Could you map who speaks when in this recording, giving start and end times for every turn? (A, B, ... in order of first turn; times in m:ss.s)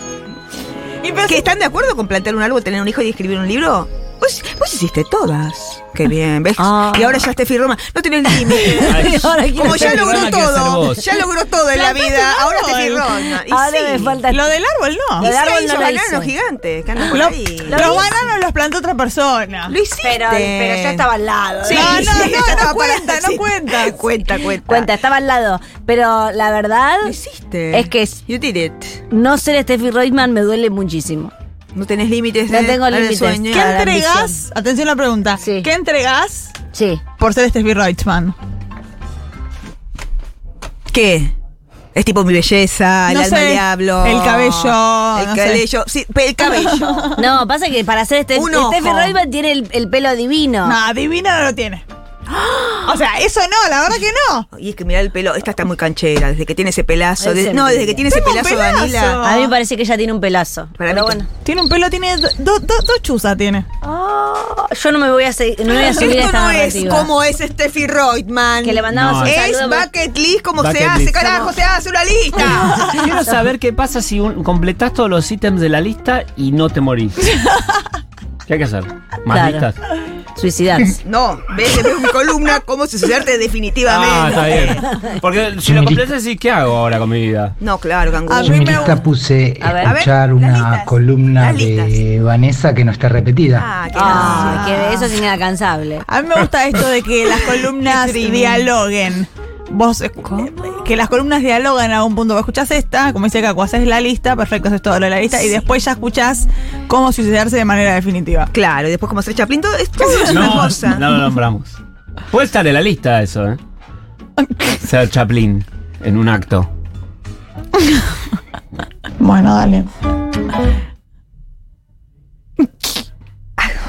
0:01.0-0:01.5 A
0:01.3-0:09.0 B
0:06.6-0:07.3 C
0:08.3-0:11.1 C
0:08.7-0:11.0 D
0:09.5-0:14.2 B
0:11.7-0:13.2 A
0:13.5-0:14.5 C
0:14.3-0:15.3 A
0:15.2-0:16.3 C
0:15.2-0:18.1 B
0:17.0-0:18.1 C
0:17.1-0:19.8 A
0:19.7-0:21.1 B
0:20.0-0:22.6 C
0:21.6-0:24.9 B
0:21.7-0:24.0 A
0:24.7-0:27.2 C
0:27.0-0:29.0 B
0:27.7-0:28.2 C
0:29.1-0:31.3 C
0:31.7-0:33.9 B
0:32.5-0:34.4 C
0:33.5-0:36.5 A
0:35.4-0:35.7 C
0:36.7-0:37.0 C
0:37.2-0:38.3 A
0:40.9-0:41.3 B
0:41.9-0:47.2 B
0:43.1-0:45.6 A
0:47.2-0:50.8 C
0:48.3-0:49.2 B
0:50.6-0:51.8 A
0:52.8-0:54.4 A
0:54.5-0:59.2 B
0:57.2-0:58.0 C
0:58.0-0:59.5 A
0:59.2-1:01.3 C
1:00.8-1:01.2 B
1:01.4-1:03.6 A
1:03.8-1:07.1 C
1:05.8-1:12.9 B
1:08.6-1:09.9 C
1:08.9-1:09.4 D
1:10.6-1:11.5 D
1:12.7-1:17.3 D
1:18.5-1:19.8 D
1:19.3-1:19.6 C
1:20.4-1:21.0 C
1:21.0-1:24.8 B
1:23.8-1:27.5 D
1:27.6-1:29.0 B
1:28.2-1:29.0 A
1:28.4-1:33.7 E
1:29.6-1:30.0 C
1:29.8-1:32.0 B
1:33.6-1:35.2 B
1:33.9-1:36.0 C
1:36.1-1:48.5 A
1:37.8-1:38.7 B
1:48.5-1:51.1 B
1:50.0-1:50.7 A
1:50.3-1:51.8 D
1:52.3-1:53.6 D
1:54.8-1:56.7 D
1:59.2-1:59.9 A